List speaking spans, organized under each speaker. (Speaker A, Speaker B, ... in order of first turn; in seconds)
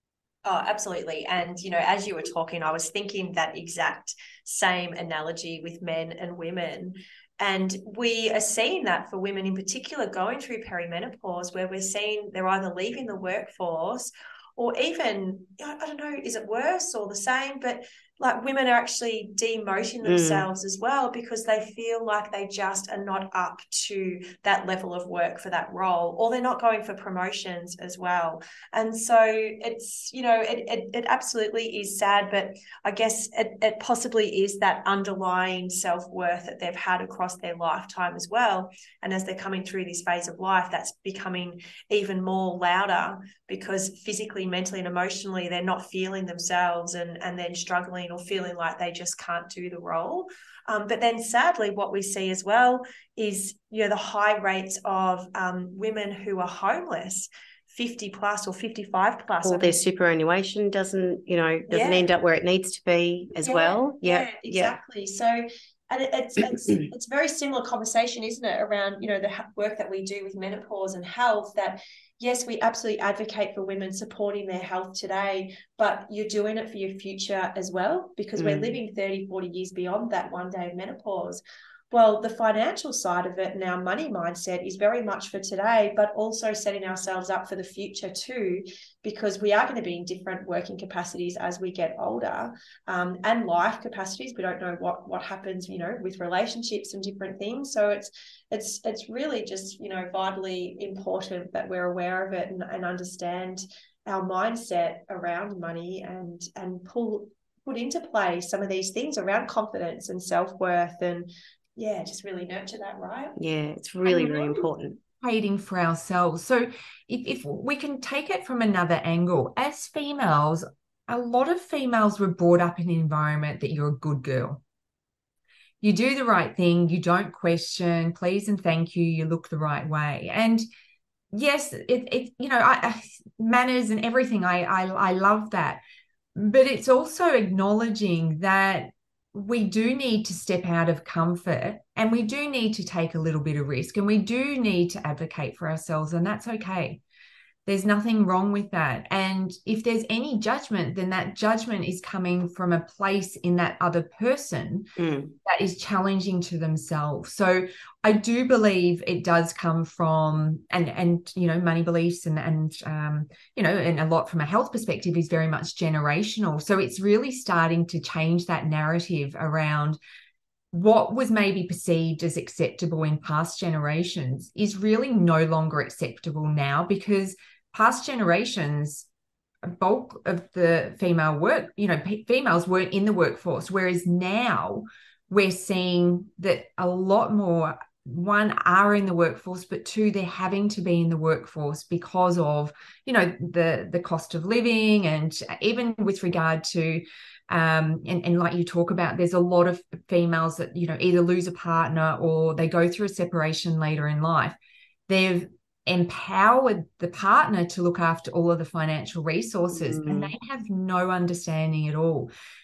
Speaker A: 0.4-59.8, 61.7-62.1, 63.4-113.3, 114.0-114.7
Speaker B: 20.0-20.4, 59.4-64.8, 78.4-78.8, 113.4-115.0, 155.0-155.3, 209.7-210.3
Speaker C: 115.2-124.6, 125.8-130.6, 131.3-135.8, 136.3-147.0, 147.7-154.9, 155.4-170.0, 170.7-179.1, 179.7-204.6, 205.1-212.3